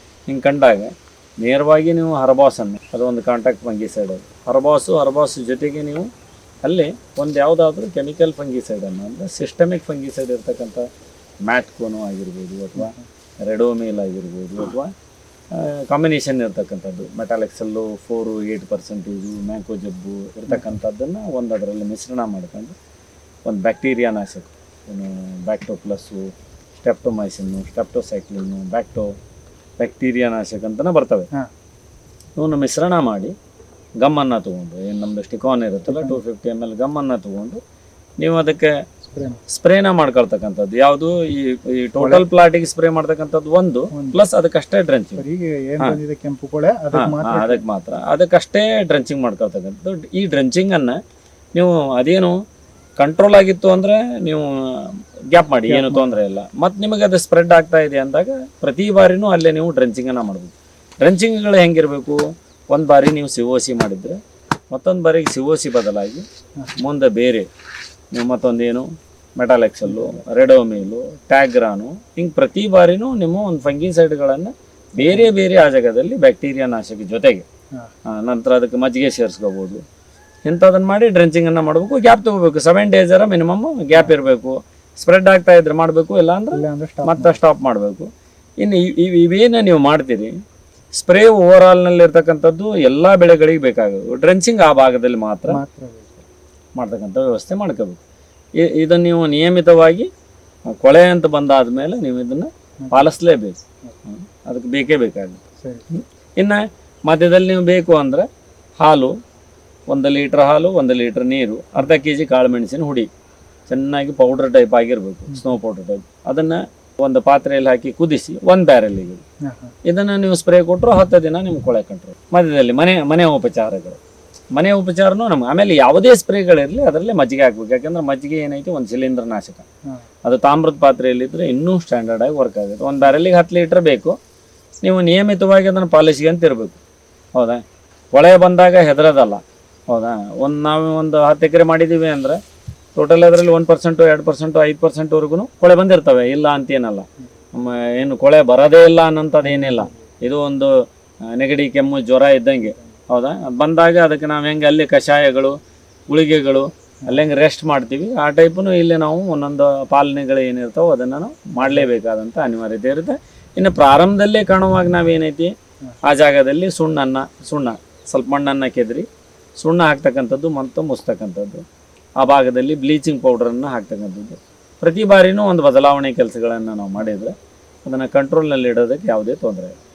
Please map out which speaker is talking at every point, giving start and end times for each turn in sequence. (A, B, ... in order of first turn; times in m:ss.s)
0:00.3-0:06.1 A
0:06.6-0:10.8 A
0:11.4-0:14.9 A
0:12.8-0:13.0 B
0:15.5-0:22.7 A
0:23.4-0:29.1 A
0:29.8-0:31.3 A
0:32.4-0:33.3 A
0:34.0-0:37.6 A
0:35.9-0:36.2 B
0:38.2-0:38.7 A
0:39.0-0:39.4 B
0:39.5-0:45.2 A
0:42.0-0:42.2 B
0:43.9-0:44.2 B
0:45.2-0:47.6 B
0:46.9-0:51.0 A
0:51.5-0:52.4 A
0:53.0-1:04.2 A
0:55.7-0:56.2 B
1:04.7-1:06.2 A
1:06.8-1:07.5 A
1:08.1-1:17.4 A
1:09.8-1:10.2 B
1:15.0-1:15.3 B
1:18.0-1:19.8 A
1:20.4-1:28.1 A
1:26.5-1:27.4 B
1:28.6-1:30.3 A
1:31.0-1:35.6 A
1:35.5-1:36.2 B
1:36.8-1:38.0 A
1:38.6-1:40.1 A
1:40.6-1:43.6 A
1:42.8-1:43.1 B
1:44.1-1:48.3 A
1:45.6-1:45.8 B
1:48.8-1:49.1 A
1:49.9-1:53.1 A
1:53.7-1:59.2 A
1:59.4-1:59.7 B
1:59.8-2:04.0 A
2:04.5-2:09.6 A
2:10.2-2:14.2 A
2:14.8-2:16.8 A
2:17.3-2:17.6 A
2:18.1-2:22.4 A
2:22.9-2:35.6 A
2:29.4-2:30.0 B
2:36.1-2:45.5 A
2:41.6-2:41.9 B
2:46.0-2:49.1 A
2:49.6-2:51.6 A
2:52.2-2:57.3 A
2:57.8-2:59.7 A